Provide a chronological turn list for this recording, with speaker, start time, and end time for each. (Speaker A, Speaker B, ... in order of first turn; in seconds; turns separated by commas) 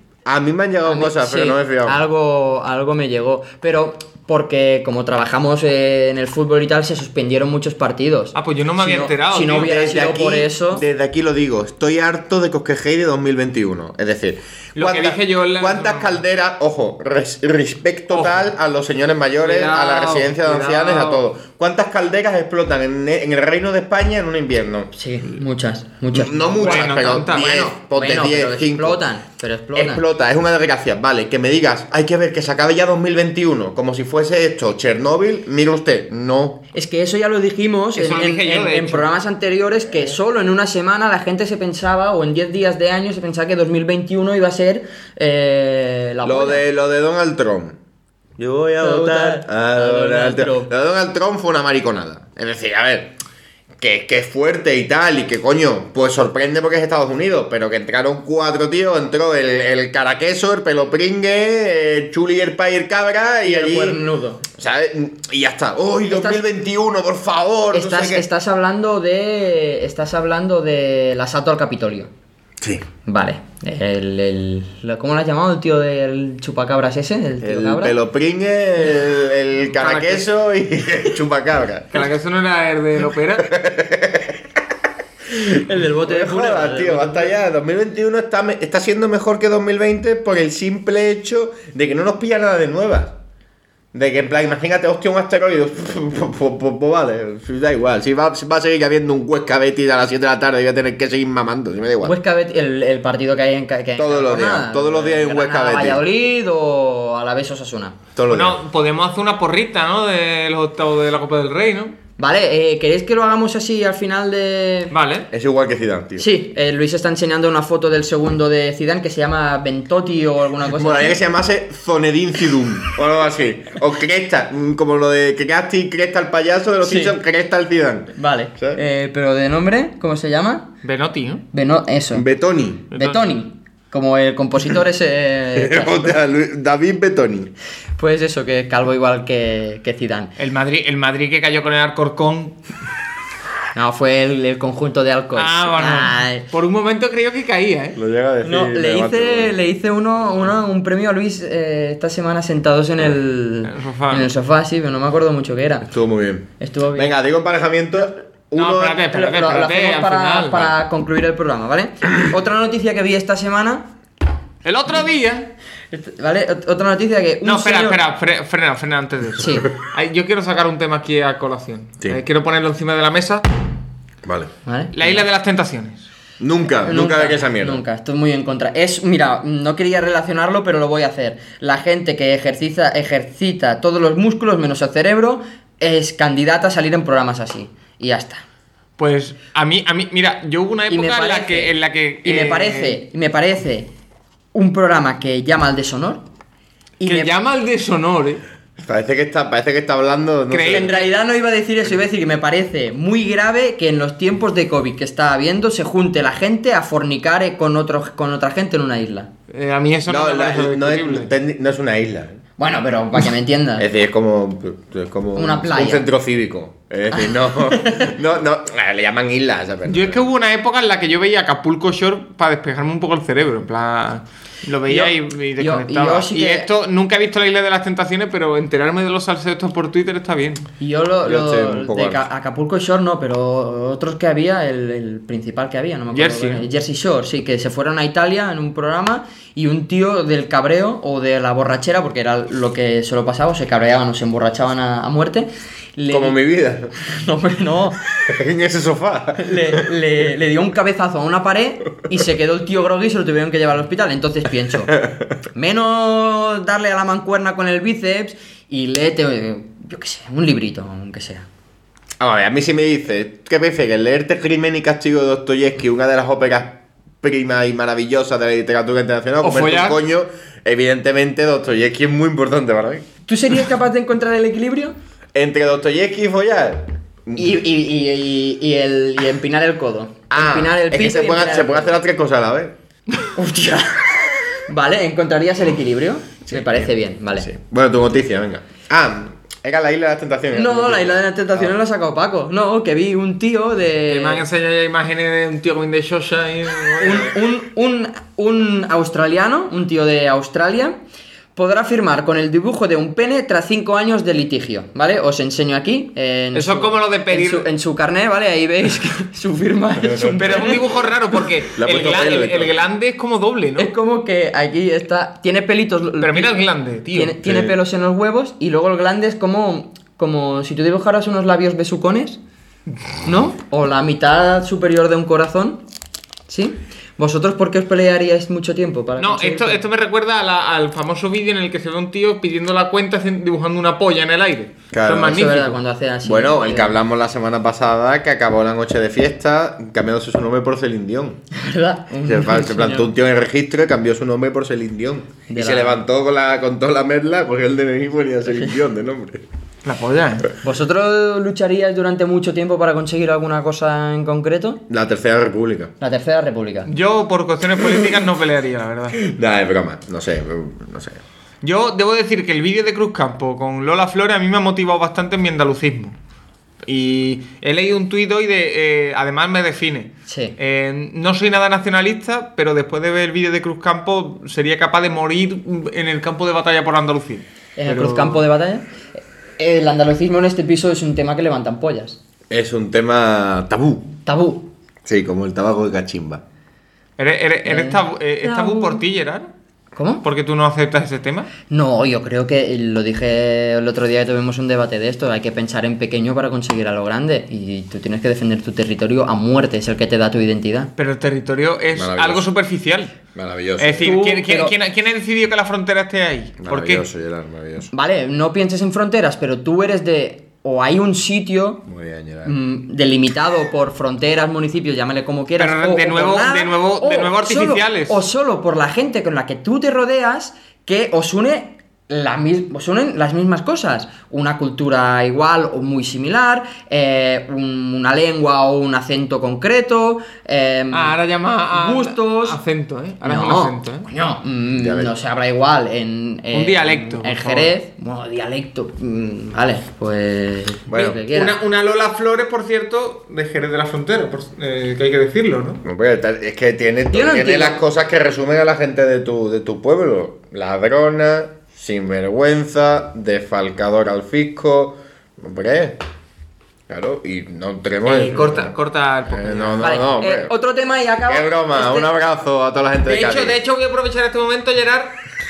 Speaker A: 0.2-2.0, Speaker B: 0.8-10.8, Speaker C: 8.3-9.7, Speaker A: 9.5-24.9, Speaker C: 14.8-16.2, Speaker C: 18.1-18.5, Speaker C: 19.4-21.2, Speaker B: 24.9-30.0, Speaker A: 26.1-29.0, Speaker C: 26.6-27.6, Speaker A: 29.7-36.6, Speaker B: 36.7-46.6, Speaker C: 37.9-39.1, Speaker A: 46.2-47.8, Speaker A: 48.4-53.1, Speaker B: 48.8-50.7, Speaker A: 53.8-64.0, Speaker B: 63.4-64.4, Speaker A: 64.5-68.3, Speaker B: 66.1-66.4, Speaker B: 67.7-72.1, Speaker B: 73.0-78.0, Speaker A: 77.4-82.0, Speaker C: 79.7-80.3, Speaker C: 81.9-83.5, Speaker A: 83.4-84.6, Speaker A: 85.3-93.2, Speaker B: 85.5-87.3, Speaker A: 93.9-102.2, Speaker B: 102.0-108.0, Speaker A: 104.0-106.0, Speaker A: 108.2-108.6, Speaker C: 108.3-112.0, Speaker B: 112.2-114.9, Speaker C: 114.9-115.3, Speaker A: 115.3-116.2, Speaker B: 116.2-121.2, Speaker A: 120.7-128.8, Speaker B: 126.8-127.1, Speaker B: 128.1-130.7, Speaker C: 130.8-131.4, Speaker B: 131.5-132.2, Speaker A: 132.1-132.9, Speaker B: 132.9-136.2, Speaker C: 132.9-133.2, Speaker A: 135.6-137.5, Speaker B: 138.0-140.3, Speaker C: 140.4-142.6, Speaker B: 143.7-146.4, Speaker C: 145.3-148.0, Speaker A: 147.9-149.6, Speaker B: 148.4-155.9, Speaker C: 153.7-154.3, Speaker A: 155.9-159.0, Speaker B: 156.6-157.1, Speaker C: 158.5-160.7, Speaker B: 159.1-163.9, Speaker C: 164.6-165.5, Speaker B: 165.9-168.0, Speaker C: 167.4-173.4, Speaker B: 169.4-169.7, Speaker A: 174.2-174.5, Speaker B: 174.7-175.2, Speaker C: 174.9-176.1, Speaker A: 176.4-177.8, Speaker B: 176.8-188.4, Speaker C: 189.0-193.0, Speaker B: 190.9-191.7, Speaker B: 192.2-193.9, Speaker B: 194.5-196.2, Speaker B: 197.0-197.3, Speaker C: 197.0-198.4, Speaker A: 198.8-200.9, Speaker C: 200.5-201.1, Speaker B: 200.7-209.3, Speaker C: 209.5-211.3, Speaker A: 210.1-212.4, Speaker B: 212.6-213.9, Speaker A: 213.8-220.2, Speaker B: 215.3-216.1, Speaker B: 217.1-218.1, Speaker C: 219.9-230.7, Speaker B: 224.9-226.7, Speaker B: 230.8-246.4, Speaker A: 231.2-232.3, Speaker C: 236.1-236.7, Speaker A: 246.1-246.9, Speaker B: 247.0-248.0, Speaker A: 248.1-249.8, Speaker B: 249.4-255.0, Speaker B: 255.5-261.5, Speaker A: 262.2-273.1, Speaker C: 269.4-270.0, Speaker B: 273.2-274.9, Speaker A: 275.3-277.5, Speaker B: 277.3-281.9, Speaker A: 280.3-282.7, Speaker B: 283.3-287.5, Speaker A: 286.5-291.7, Speaker B: 290.5-294.4, Speaker C: 294.1-297.3, Speaker B: 297.0-301.0, Speaker B: 301.5-310.9, Speaker C: 306.5-307.7, Speaker A: 310.0-310.8, Speaker C: 310.4-313.9, Speaker A: 311.8-312.7, Speaker B: 313.8-316.5, Speaker C: 316.2-317.4, Speaker B: 317.1-322.4, Speaker A: 317.4-317.8, Speaker B: 323.2-325.8, Speaker B: 326.5-329.8, Speaker C: 329.2-335.8, Speaker A: 334.9-335.5, Speaker B: 335.2-337.0, Speaker A: 336.2-341.4, Speaker B: 341.5-343.1, Speaker A: 342.2-349.4, Speaker B: 345.5-346.0, Speaker C: 349.8-350.5, Speaker B: 350.6-354.8, Speaker A: 354.9-355.9, Speaker B: 356.0-356.9, Speaker C: 356.9-359.2, Speaker A: 359.2-361.2, Speaker C: 361.6-366.1, Speaker C: 366.8-378.4, Speaker B: 370.3-370.5, Speaker B: 377.8-378.9, Speaker B: 379.6-382.2, Speaker A: 382.5-384.1, Speaker B: 384.2-384.7, Speaker A: 385.0-386.4, Speaker C: 387.2-389.5, Speaker B: 387.6-389.0, Speaker B: 389.9-390.2, Speaker C: 390.2-391.5, Speaker B: 391.7-400.9, Speaker C: 401.0-403.2, Speaker A: 401.9-402.4, Speaker A: 403.3-404.2, Speaker C: 403.8-407.0, Speaker B: 404.0-404.7, Speaker A: 406.6-407.9, Speaker B: 407.9-411.8, Speaker A: 411.9-412.5, Speaker B: 412.4-431.1, Speaker C: 415.6-418.2, Speaker C: 430.9-434.1, Speaker B: 431.7-432.6, Speaker B: 433.2-441.6, Speaker A: 434.8-435.1, Speaker C: 436.5-437.7, Speaker A: 440.9-441.2, Speaker C: 441.1-445.8, Speaker A: 445.8-456.0, Speaker B: 447.1-447.8, Speaker A: 456.9-458.7, Speaker C: 458.0-460.0, Speaker A: 459.3-460.5, Speaker B: 459.8-462.1, Speaker A: 461.3-463.6, Speaker C: 463.0-465.2